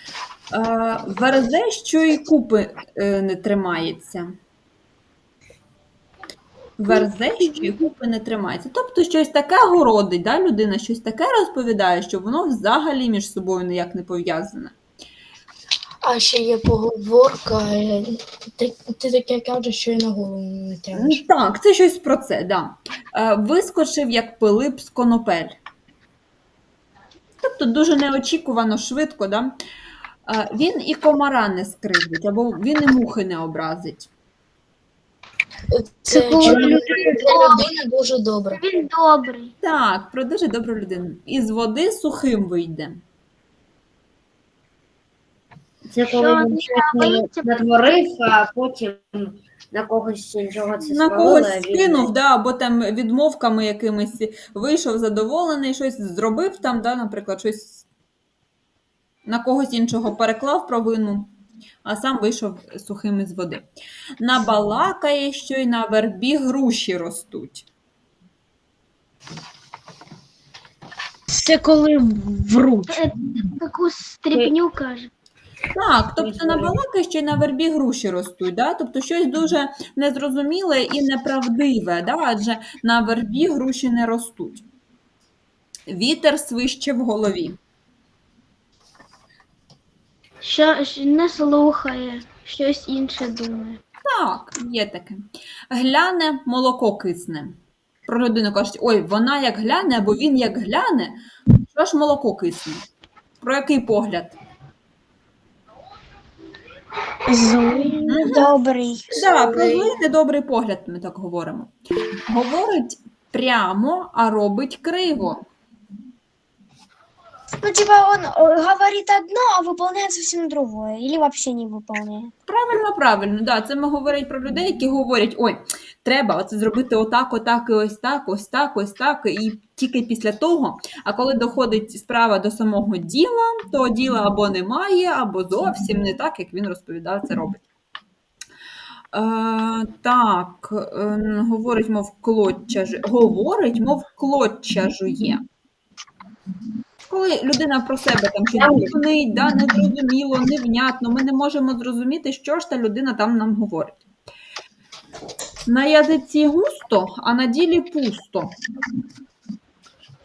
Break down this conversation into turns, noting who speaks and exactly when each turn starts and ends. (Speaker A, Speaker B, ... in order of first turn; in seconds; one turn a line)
Speaker A: 0.5-4.3
Speaker A: 6.8-14.8
Speaker B: 16.0-21.2
Speaker A: 20.9-25.6
Speaker A: 27.4-29.5
Speaker A: 30.2-34.1
Speaker B: 35.7-38.6
Speaker C: 36.1-37.6
Speaker D: 36.4-37.2
Speaker C: 38.5-39.5
Speaker A: 39.6-43.0
Speaker E: 45.9-52.1
Speaker C: 46.2-47.6
Speaker F: 46.6-47.2
Speaker A: 50.9-57.8
Speaker A: 59.2-61.3
Speaker A: 61.9-63.7
Speaker A: 64.2-67.6
Speaker D: 71.3-73.0
Speaker C: 72.9-75.1
Speaker A: 75.8-84.7
Speaker E: 76.2-76.8
Speaker A: 85.9-87.6
Speaker C: 90.4-93.8
Speaker A: 94.1-97.6
Speaker A: 98.1-101.2
Speaker A: 101.7-102.8
Speaker A: 103.4-104.4
Speaker D: 107.3-108.2
Speaker A: 108.1-108.5
Speaker F: 108.3-109.9
Speaker A: 109.1-111.7
Speaker A: 112.3-115.5
Speaker F: 117.6-122.3
Speaker A: 122.5-137.6
Speaker A: 139.1-145.4
Speaker A: 147.1-154.0
Speaker E: 148.6-148.9
Speaker A: 155.7-158.5